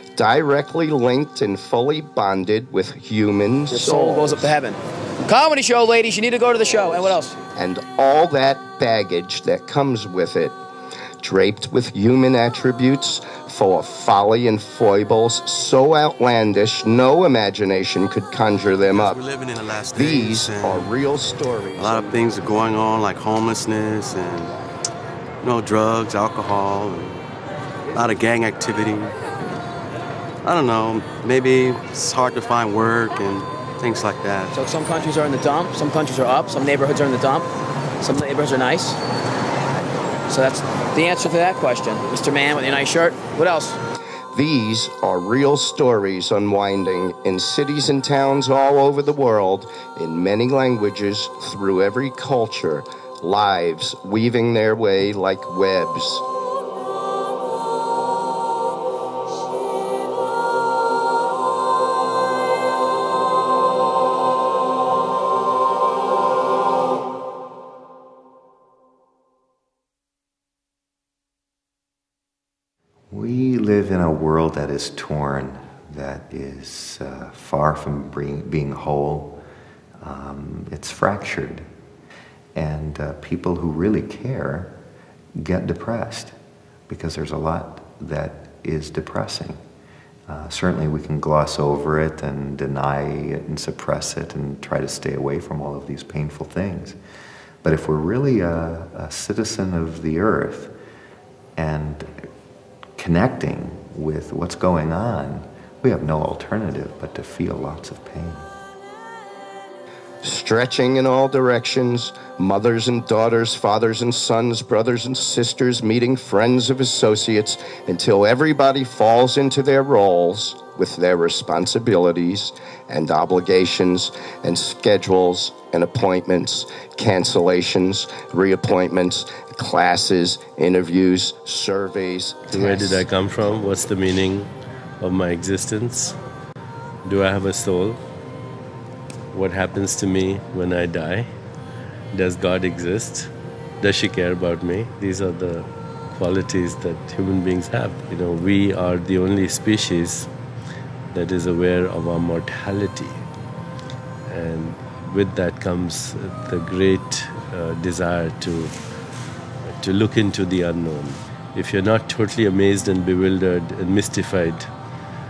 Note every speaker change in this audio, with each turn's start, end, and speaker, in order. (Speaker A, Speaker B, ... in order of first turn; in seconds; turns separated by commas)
Speaker A: 0.2-4.6, Speaker B: 3.7-7.4, Speaker A: 7.6-10.6, Speaker A: 11.2-19.2, Speaker C: 18.9-20.9, Speaker A: 19.9-22.2, Speaker C: 21.8-24.6, Speaker C: 25.4-27.2, Speaker C: 27.9-29.2, Speaker C: 30.4-34.5, Speaker B: 34.5-37.5, Speaker B: 38.0-39.0, Speaker B: 40.3-43.8, Speaker A: 44.3-56.2, Speaker D: 73.1-79.4, Speaker D: 80.0-81.7, Speaker D: 82.5-84.7, Speaker D: 85.3-86.3, Speaker D: 86.9-89.6, Speaker D: 90.3-97.0, Speaker D: 97.6-100.7, Speaker D: 101.6-102.2, Speaker D: 103.0-108.5, Speaker A: 110.2-133.1, Speaker E: 132.5-136.2, Speaker E: 137.0-138.0, Speaker E: 139.3-141.3, Speaker E: 142.1-150.3, Speaker E: 151.1-153.2, Speaker E: 154.3-158.8, Speaker E: 159.6-164.7